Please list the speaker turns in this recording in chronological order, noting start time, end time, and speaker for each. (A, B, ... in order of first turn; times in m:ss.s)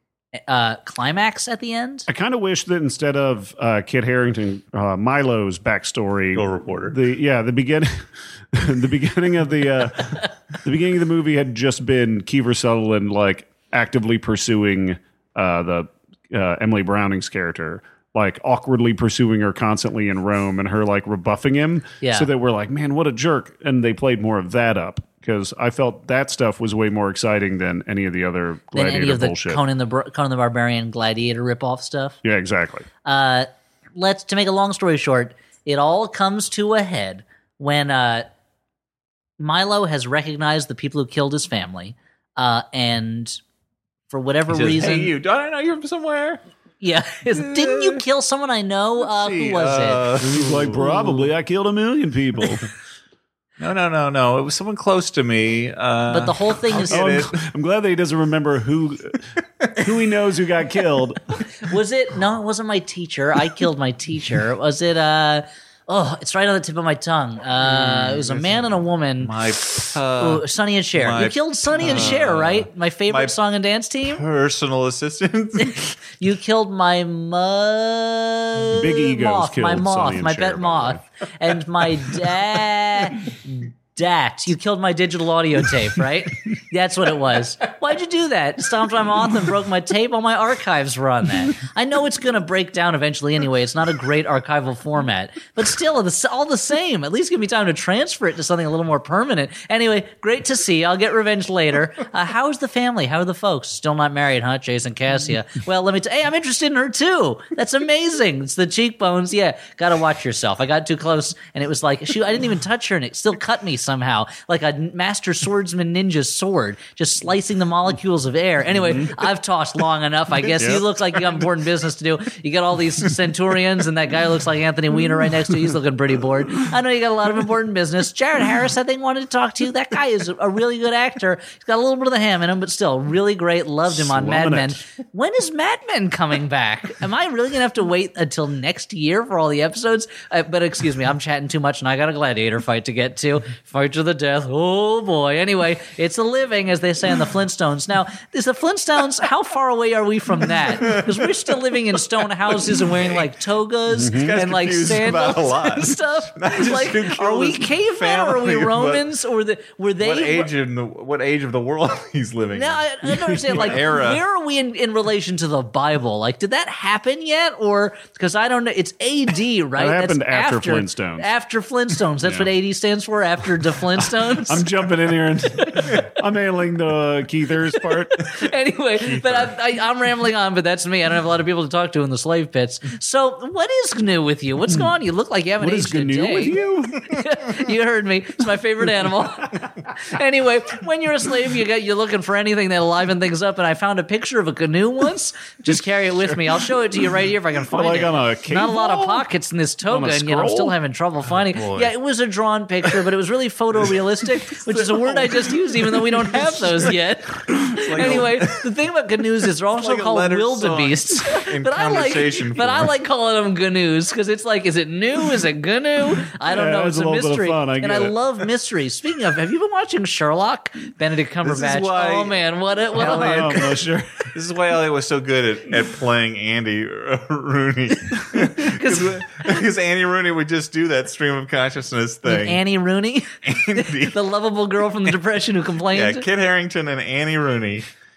0:00.5-0:02.1 A
0:02.1-0:29.6 B
0:06.3-0:07.0 C
0:22.0-0:22.3 A
0:28.7-0:32.2 A
0:32.2-0:32.9 B
0:33.0-0:38.3 A
0:39.4-0:43.4 A
0:44.1-0:45.1 A
0:44.5-0:46.4 C
0:46.8-0:50.1 A
0:47.4-0:48.0 C
0:49.1-0:49.6 B
0:49.4-0:51.2 C
0:50.2-0:52.7 B
0:53.6-0:57.3 C
0:56.1-0:57.2 A
0:56.9-1:01.2 B
1:01.6-1:09.3 A
1:07.6-1:08.5 C
1:09.2-1:10.4 C
1:10.2-1:14.2 A
1:11.0-1:13.3 C
1:11.8-1:12.2 B
1:14.0-1:15.9 C
1:15.6-2:40.5 A
1:18.7-1:21.0 B
1:58.8-1:59.2 B
2:00.6-2:00.8 B
2:13.9-2:14.8 B
2:32.8-2:33.2 C
2:33.9-2:34.3 B
2:34.0-2:39.0 C
2:40.0-2:42.8 C
2:42.5-2:54.7 A
2:43.0-2:43.8 B
2:43.5-2:44.2 C
2:49.8-2:51.3 B
2:52.2-2:52.5 B
2:54.4-2:58.2 B
2:57.7-3:43.7 A
2:59.0-2:59.5 C
3:05.6-3:07.1 B
3:17.7-3:19.3 B
3:19.9-3:20.8 B
3:21.3-3:21.9 C
3:24.8-3:25.3 C
3:27.7-3:28.6 C
3:27.8-3:28.2 B
3:29.8-3:32.9 C
3:36.4-3:38.2 B
3:41.4-3:42.4 C
3:42.9-3:43.6 C
3:42.9-3:44.3 B
3:44.3-3:52.6 C
3:48.3-3:49.2 A
3:52.2-3:56.2 A
3:53.4-3:54.2 C
3:55.9-3:57.9 C